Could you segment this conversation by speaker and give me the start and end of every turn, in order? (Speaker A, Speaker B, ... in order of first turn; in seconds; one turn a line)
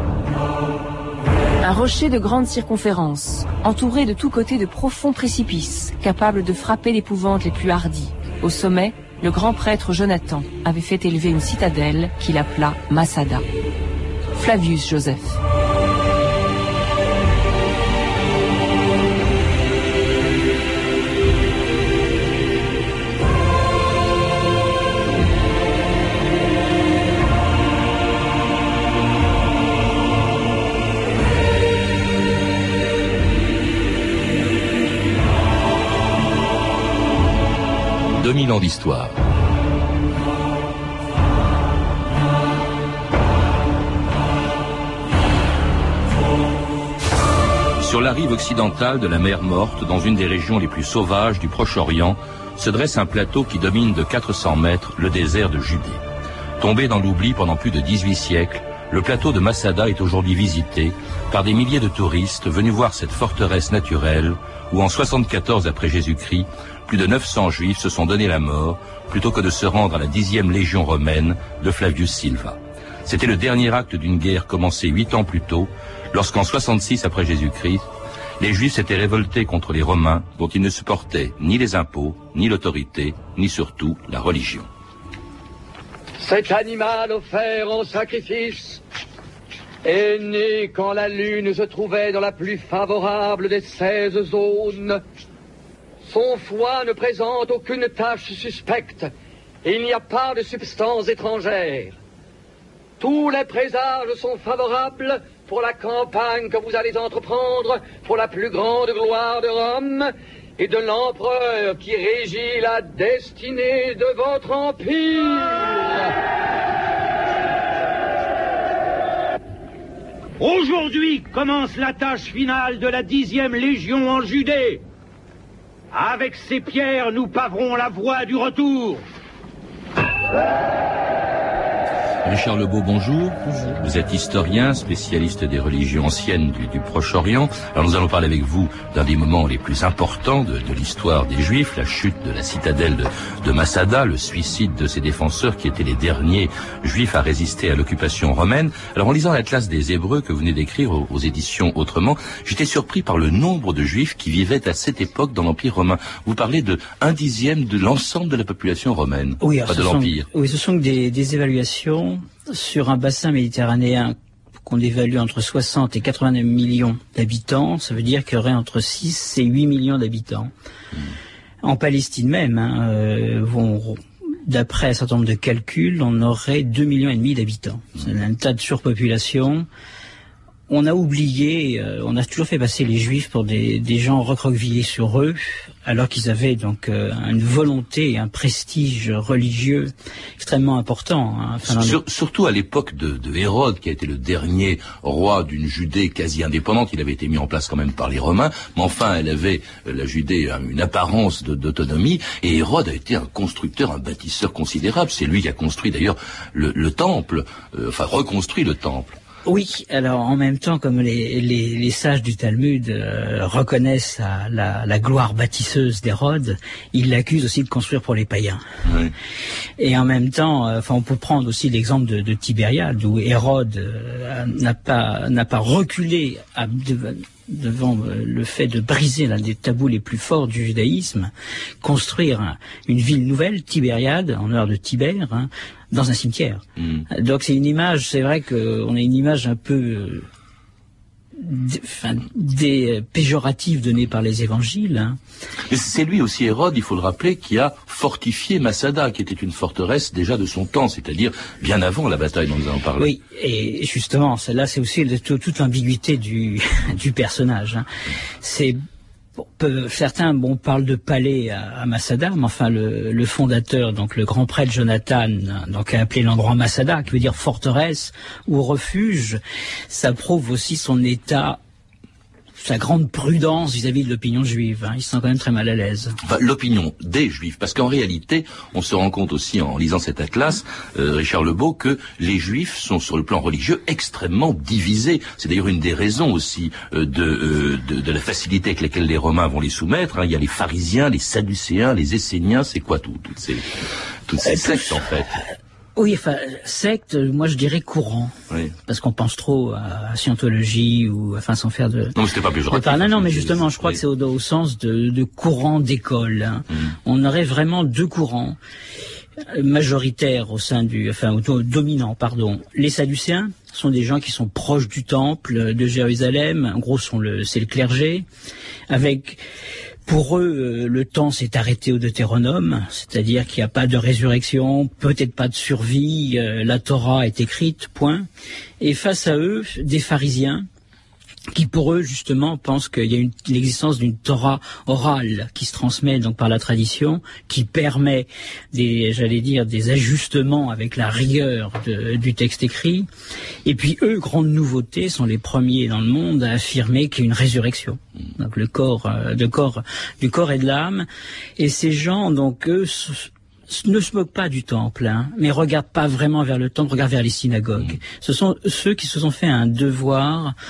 Speaker A: 1.6-13.4
Speaker A: 14.3-15.4
Speaker B: 38.2-39.1
Speaker B: 47.8-56.0
Speaker B: 56.6-77.8
Speaker B: 78.4-84.7
Speaker C: 86.2-88.8
Speaker C: 89.8-95.0
Speaker C: 96.0-99.1
Speaker C: 99.6-102.0
Speaker C: 103.0-116.1
Speaker D: 120.4-124.8
Speaker D: 125.9-129.0
Speaker B: 132.2-160.3
Speaker E: 159.4-170.5
Speaker E: 171.6-179.7
Speaker E: 180.7-192.0
Speaker B: 191.6-209.2
Speaker E: 209.4-218.6
Speaker B: 218.8-219.1
Speaker E: 219.8-231.3
Speaker E: 231.8-240.3
Speaker B: 236.8-237.0
Speaker E: 241.3-245.2
Speaker B: 245.7-253.1
Speaker E: 253.0-257.9
Speaker E: 258.4-258.8
Speaker E: 259.4-271.6
Speaker E: 272.6-276.2
Speaker B: 276.2-293.8
Speaker B: 294.3-295.3
Speaker E: 294.5-294.9
Speaker E: 295.9-298.3
Speaker E: 298.9-302.1
Speaker B: 302.1-304.0
Speaker E: 302.7-308.6
Speaker E: 309.5-318.2
Speaker E: 318.9-319.4
Speaker E: 320.1-328.3
Speaker E: 328.8-330.6
Speaker E: 331.5-343.1
Speaker E: 343.6-351.1
Speaker E: 351.6-360.5